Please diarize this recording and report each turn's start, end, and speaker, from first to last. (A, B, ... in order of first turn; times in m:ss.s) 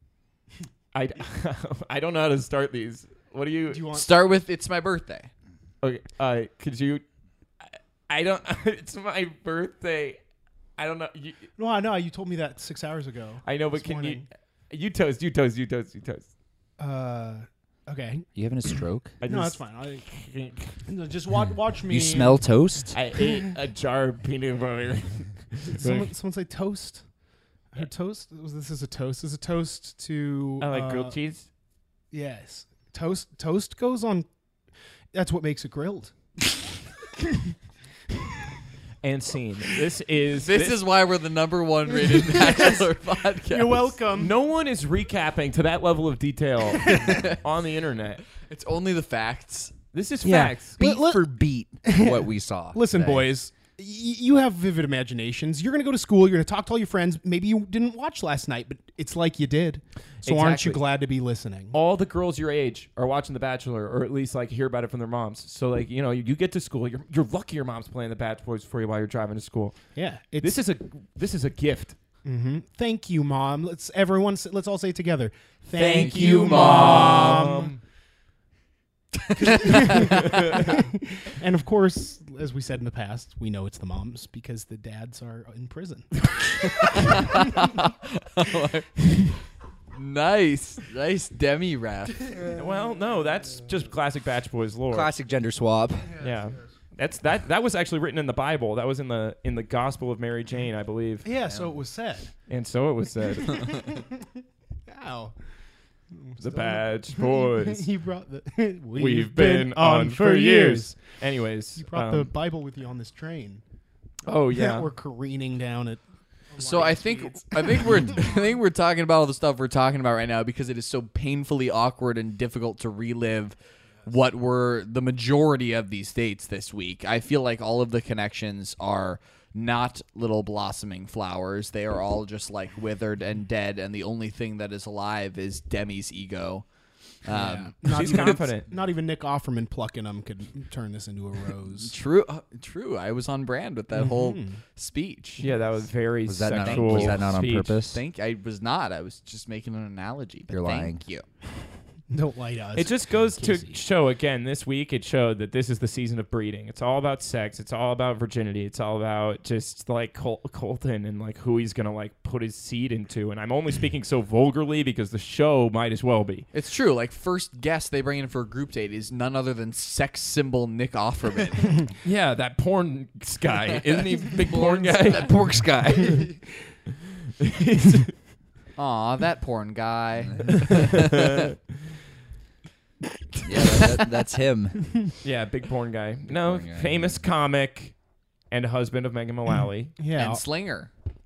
0:00.9-0:03.9 A
0:03.7-0:04.1 B
0:03.9-0:05.3 C
0:05.8-0:07.0 A
0:07.7-0:10.2 A
0:10.8-0:11.5 A
0:11.6-0:14.3 B
0:13.4-0:16.3 A
0:16.8-0:18.3 B
0:18.4-0:19.2 D
0:19.2-0:20.7 A
0:19.2-0:20.1 B
0:20.9-0:22.4 B
0:21.9-0:23.0 D
0:22.9-0:26.1 A
0:25.7-0:27.0 B
0:27.7-0:31.2 B
0:30.6-0:31.5 A
0:32.1-0:34.3 B
0:35.1-0:36.6 B
0:39.0-0:40.8 A
0:40.4-0:44.0 C
0:42.1-0:42.8 B
0:43.5-0:44.3 B
0:44.1-0:48.2 A
0:48.4-0:49.8 C
0:49.9-0:50.8 A
0:50.2-0:53.3 D
0:50.8-1:01.8 B
1:00.2-1:00.8 A
1:01.7-1:12.0 A
1:10.0-1:10.6 B
1:12.2-1:17.7 B
1:15.7-1:17.6 D
1:16.0-1:17.8 A
1:16.0-1:16.4 C
1:19.4-1:27.5 B
1:20.1-1:20.7 A
1:26.6-1:29.4 C
1:29.9-1:32.4 C
1:32.4-1:35.1 A
1:34.9-1:36.2 D
1:36.2-1:41.3 A
1:41.2-1:42.3 B
1:42.5-1:44.0 A
1:44.9-1:45.4 B
1:46.1-1:51.0 B
1:46.4-1:47.9 A
1:49.0-1:52.3 A
1:51.8-1:53.6 B
1:54.2-1:54.9 A
1:54.5-1:56.0 B
1:56.5-1:58.2 B
1:56.6-2:16.7 C
2:17.2-2:18.4 C
2:17.3-2:22.0 B
2:17.8-2:18.7 A
2:21.8-2:25.5 C
2:23.9-2:24.6 B
2:25.4-2:27.8 A
2:26.3-2:28.0 D
2:26.6-2:27.3 C
2:27.9-2:31.2 C
2:30.5-2:31.0 D
2:32.1-2:33.8 B
2:32.8-2:46.5 A
2:46.5-2:51.8 C
2:52.0-2:55.3 A
2:53.7-2:55.3 C
2:54.9-2:56.3 D
2:57.4-2:58.1 A
2:58.8-3:01.5 C
3:00.2-3:00.8 D
3:00.9-3:01.6 A
3:03.4-3:04.9 D
3:05.2-3:08.0 A
3:06.3-3:07.2 D
3:08.5-3:10.0 A
3:10.0-3:10.4 B
3:10.2-3:10.9 C